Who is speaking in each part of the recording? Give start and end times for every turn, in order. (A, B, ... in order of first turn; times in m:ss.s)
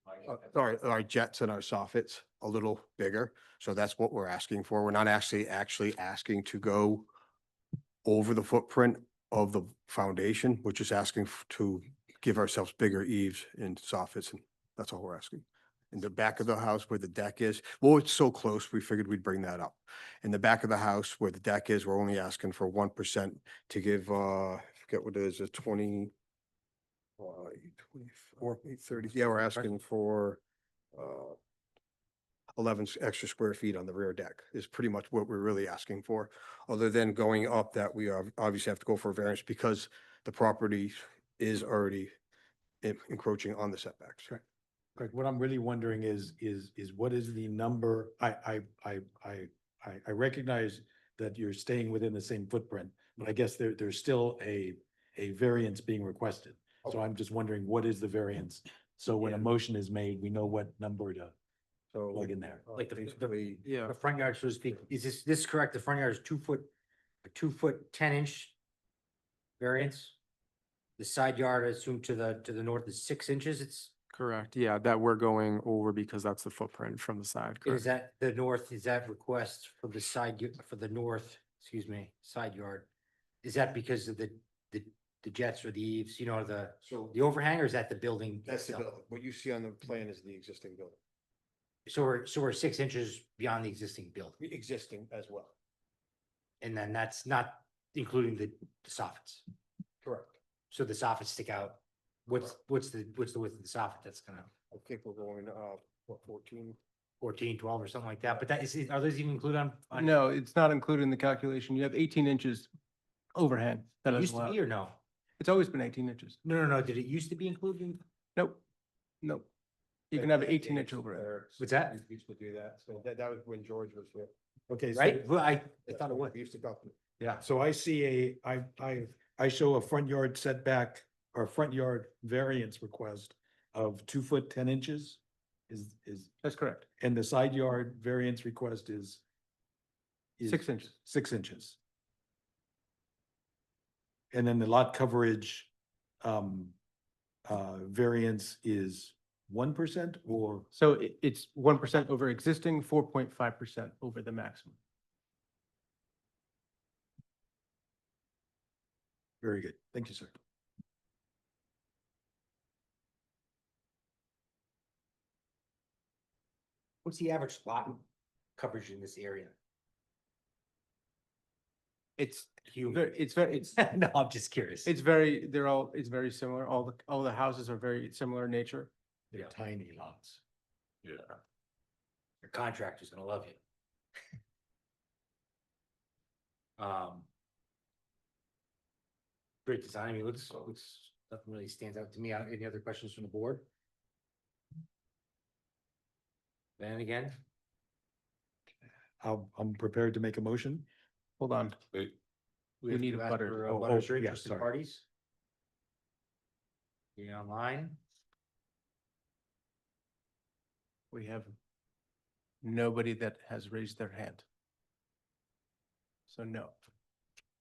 0:00.2-0:07.1 A
0:08.0-0:26.1 A
0:27.2-0:30.4 A
0:30.9-0:31.4 A
0:32.6-0:42.1 A
0:42.8-0:44.3 A
0:45.0-1:01.3 B
1:01.9-1:03.6 A
1:02.1-1:02.6 B
1:02.7-1:06.7 C
1:07.2-1:08.5 C
1:09.6-1:10.2 C
1:11.0-1:13.9 C
1:14.1-1:17.8 D
1:17.6-1:22.9 C
1:23.4-1:28.9 C
1:26.8-1:27.2 A
1:28.4-1:31.0 A
1:31.8-1:34.4 C
1:34.4-1:35.5 A
1:36.6-1:39.4 C
1:40.0-1:40.4 A
1:40.7-1:44.5 C
1:44.7-1:46.8 A
1:47.2-1:50.1 C
1:49.9-1:52.7 E
1:53.3-1:54.6 E
1:54.1-1:55.0 C
1:55.4-1:56.4 E
1:56.4-1:58.0 C
1:58.4-1:58.6 E
1:59.2-1:59.5 E
2:00.1-2:01.3 E
2:00.1-2:04.3 A
2:01.6-2:02.0 C
2:04.7-2:05.3 B
2:04.9-2:06.3 C
2:05.9-2:06.9 A
2:07.4-2:16.3 B
2:16.4-2:16.8 E
2:17.0-2:19.2 B
2:20.4-2:21.8 B
2:20.4-2:20.9 E
2:24.3-2:25.7 B
2:26.2-2:26.7 B
2:27.4-2:30.7 B
2:30.7-2:34.8 E
2:39.4-2:40.4 B
2:47.0-2:48.0 C
2:48.6-2:49.5 C
2:52.2-2:53.8 E
2:52.6-2:54.9 C
2:54.8-2:58.9 E
2:59.3-3:00.4 B
3:02.4-3:03.6 C
3:06.8-3:07.3 C
3:09.6-3:13.6 C
3:16.8-3:17.4 C
3:19.2-3:20.8 B
3:21.4-3:21.8 E
3:22.8-3:25.0 C
3:22.9-3:23.6 E
3:23.7-3:24.6 B
3:27.2-3:28.0 C
3:31.1-3:31.5 E
3:32.6-3:34.4 E
3:36.3-3:36.8 E